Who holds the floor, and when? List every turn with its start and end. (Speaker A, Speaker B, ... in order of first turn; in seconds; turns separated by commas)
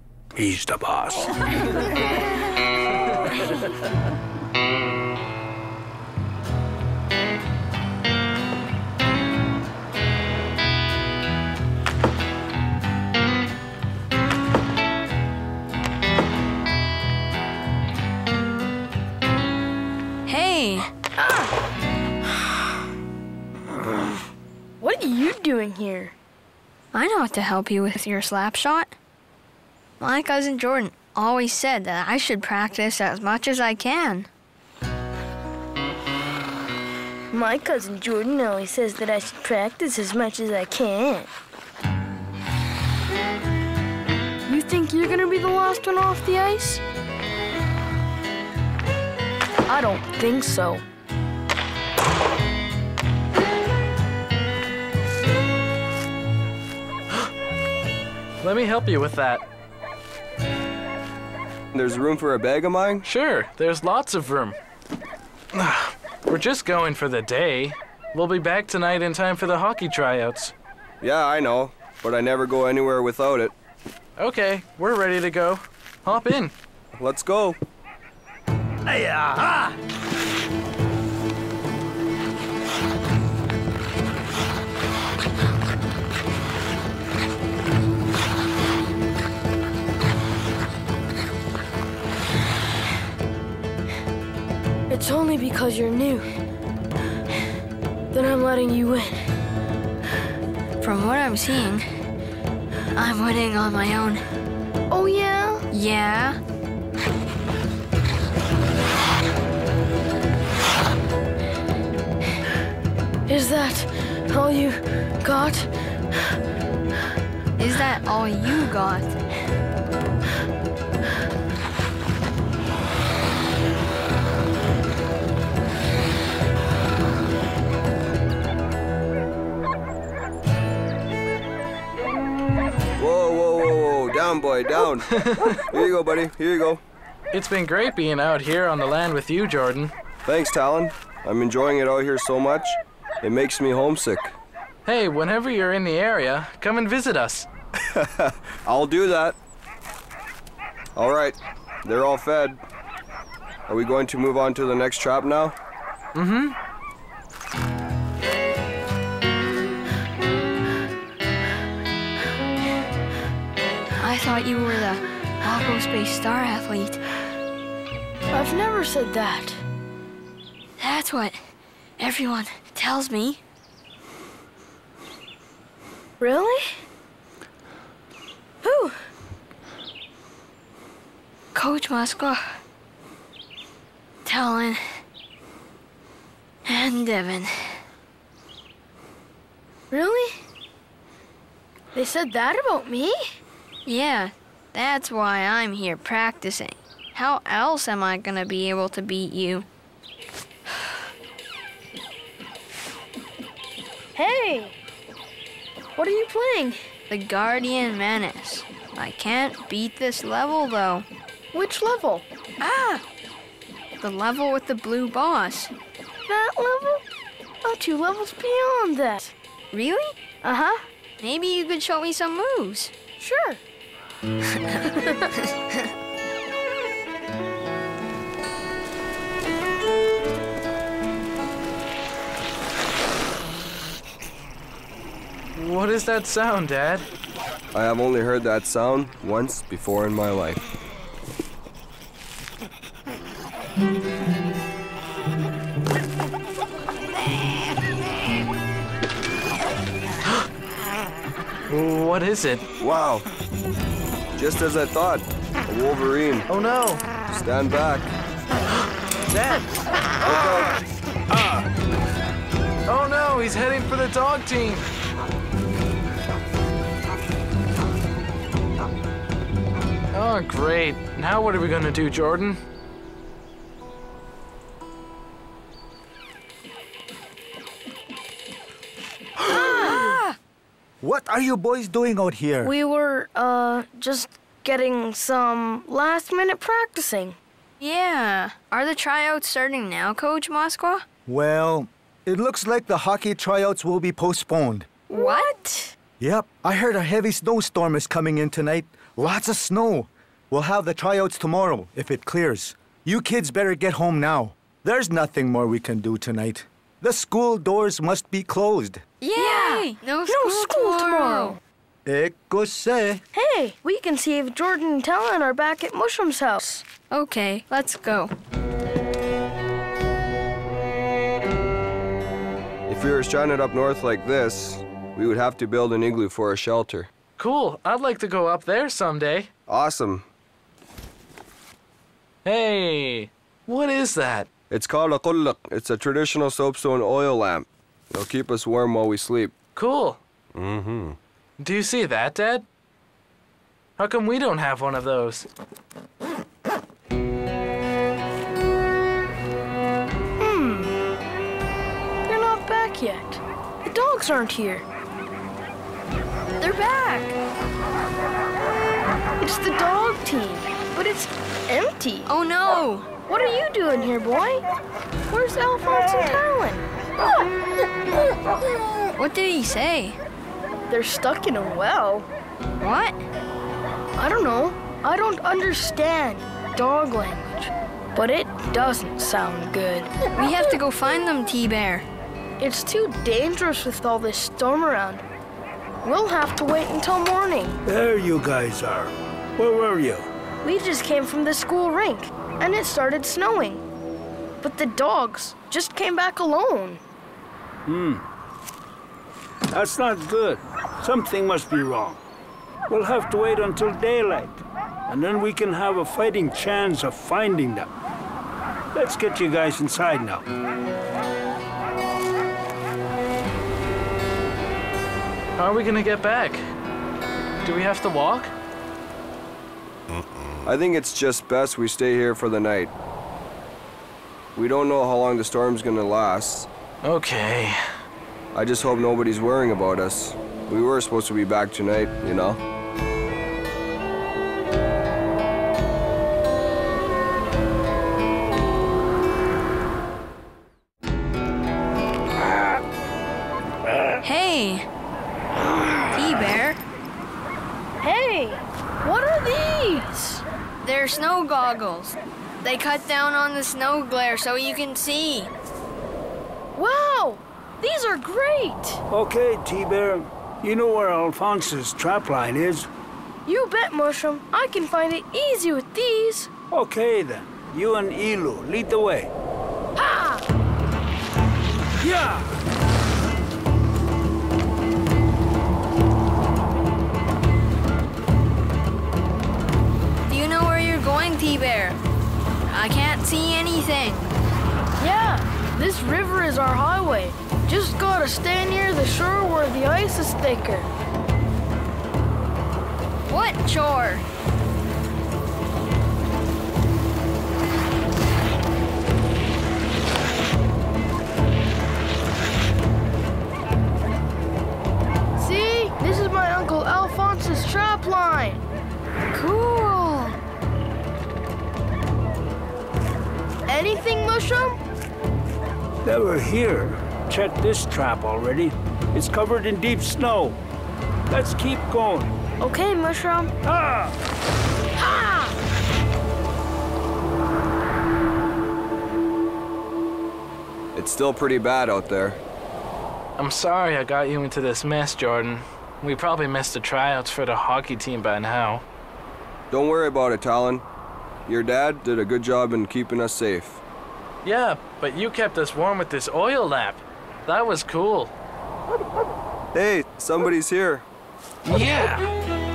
Speaker A: 0.3-1.8, Speaker B: 20.3-20.9, Speaker C: 21.2-21.5, Speaker C: 24.8-26.1, Speaker B: 26.9-28.9, Speaker B: 30.0-34.3, Speaker C: 37.3-41.3, Speaker C: 44.5-46.8, Speaker C: 49.7-50.8, Speaker D: 58.4-59.4, Speaker E: 61.7-63.1, Speaker D: 63.0-64.6, Speaker D: 65.5-70.5, Speaker E: 71.0-73.5, Speaker D: 74.2-76.5, Speaker E: 77.0-77.6, Speaker A: 78.9-79.8, Speaker C: 94.9-96.3, Speaker C: 98.1-99.2, Speaker B: 100.8-101.9, Speaker B: 103.0-104.2, Speaker C: 104.9-105.7, Speaker B: 105.7-106.4, Speaker C: 113.3-115.7, Speaker B: 117.6-119.2, Speaker E: 133.0-136.8, Speaker D: 135.2-135.6, Speaker D: 137.3-139.9, Speaker E: 140.3-144.3, Speaker D: 144.9-147.5, Speaker E: 147.9-149.3, Speaker E: 151.0-152.6, Speaker E: 153.7-155.6, Speaker D: 156.2-156.6, Speaker B: 164.0-167.0, Speaker C: 168.3-169.6, Speaker B: 170.8-171.4, Speaker B: 172.0-173.4, Speaker C: 176.2-176.8, Speaker C: 178.6-178.9, Speaker B: 181.5-182.4, Speaker B: 184.2-184.8, Speaker B: 186.7-187.8, Speaker C: 189.9-190.4, Speaker C: 191.9-193.2, Speaker B: 193.9-199.7, Speaker C: 204.2-204.8, Speaker C: 206.0-206.8, Speaker B: 207.1-211.1, Speaker C: 211.5-212.3, Speaker B: 212.6-213.0, Speaker B: 214.0-215.7, Speaker C: 216.3-217.0, Speaker C: 217.6-219.3, Speaker B: 219.7-220.1, Speaker C: 220.4-220.8, Speaker B: 221.2-222.9, Speaker C: 223.2-223.6, Speaker B: 224.5-225.0, Speaker D: 235.6-237.1, Speaker E: 237.7-240.6, Speaker D: 251.7-252.7, Speaker E: 252.8-253.3, Speaker E: 254.4-256.5, Speaker D: 256.5-257.0, Speaker E: 257.3-258.1, Speaker D: 259.3-259.6, Speaker E: 260.2-260.8, Speaker D: 262.9-264.9, Speaker D: 270.1-272.6, Speaker B: 279.5-280.4, Speaker F: 279.6-280.0, Speaker F: 281.0-282.7, Speaker C: 282.6-287.4, Speaker B: 287.8-291.0, Speaker F: 291.3-294.9, Speaker B: 295.1-295.9, Speaker C: 295.1-295.7, Speaker F: 296.2-309.0, Speaker B: 309.2-311.6, Speaker C: 309.4-311.6, Speaker F: 312.1-313.2, Speaker C: 313.3-316.9, Speaker B: 317.1-318.3, Speaker E: 322.9-327.1, Speaker D: 327.4-329.5, Speaker E: 329.7-330.3, Speaker D: 332.4-334.5, Speaker E: 334.7-339.5, Speaker D: 339.8-340.2, Speaker E: 340.6-341.1, Speaker D: 341.6-342.7, Speaker D: 344.0-345.5, Speaker C: 350.4-350.9, Speaker C: 352.3-354.9, Speaker B: 356.6-357.4, Speaker C: 359.4-362.3, Speaker B: 362.3-363.1, Speaker C: 363.2-364.6, Speaker C: 365.3-366.9, Speaker B: 369.2-370.2, Speaker C: 370.9-372.3, Speaker B: 372.8-373.2, Speaker C: 374.2-380.3, Speaker B: 380.4-382.1, Speaker C: 382.6-385.2, Speaker C: 386.0-387.8, Speaker A: 387.9-390.3, Speaker C: 390.6-393.9, Speaker C: 394.6-397.0, Speaker A: 397.9-398.2, Speaker A: 399.7-402.2, Speaker A: 402.9-407.9, Speaker A: 408.9-410.5, Speaker D: 415.6-416.6, Speaker D: 417.6-418.5, Speaker E: 420.6-422.9, Speaker E: 424.6-426.7, Speaker D: 427.0-427.8, Speaker E: 428.5-432.6, Speaker B: 444.2-444.9, Speaker B: 446.1-446.8, Speaker C: 448.0-450.4, Speaker B: 450.8-455.5, Speaker C: 456.8-459.0, Speaker A: 459.1-462.9, Speaker C: 463.5-466.5, Speaker A: 466.7-469.3, Speaker C: 470.0-470.4, Speaker A: 472.0-472.6, Speaker B: 480.3-482.0, Speaker B: 482.7-484.3, Speaker C: 485.0-490.9, Speaker B: 493.3-494.2, Speaker C: 505.4-508.6, Speaker B: 509.4-510.4, Speaker C: 513.7-514.8, Speaker A: 516.0-520.6, Speaker A: 521.3-522.3, Speaker C: 522.6-523.5, Speaker A: 523.7-524.1, Speaker C: 525.0-525.6, Speaker E: 531.0-532.4, Speaker D: 533.4-538.8, Speaker E: 539.7-540.8, Speaker E: 541.5-543.8, Speaker D: 544.5-548.3, Speaker E: 549.7-551.0, Speaker A: 551.7-552.3, Speaker D: 551.7-552.1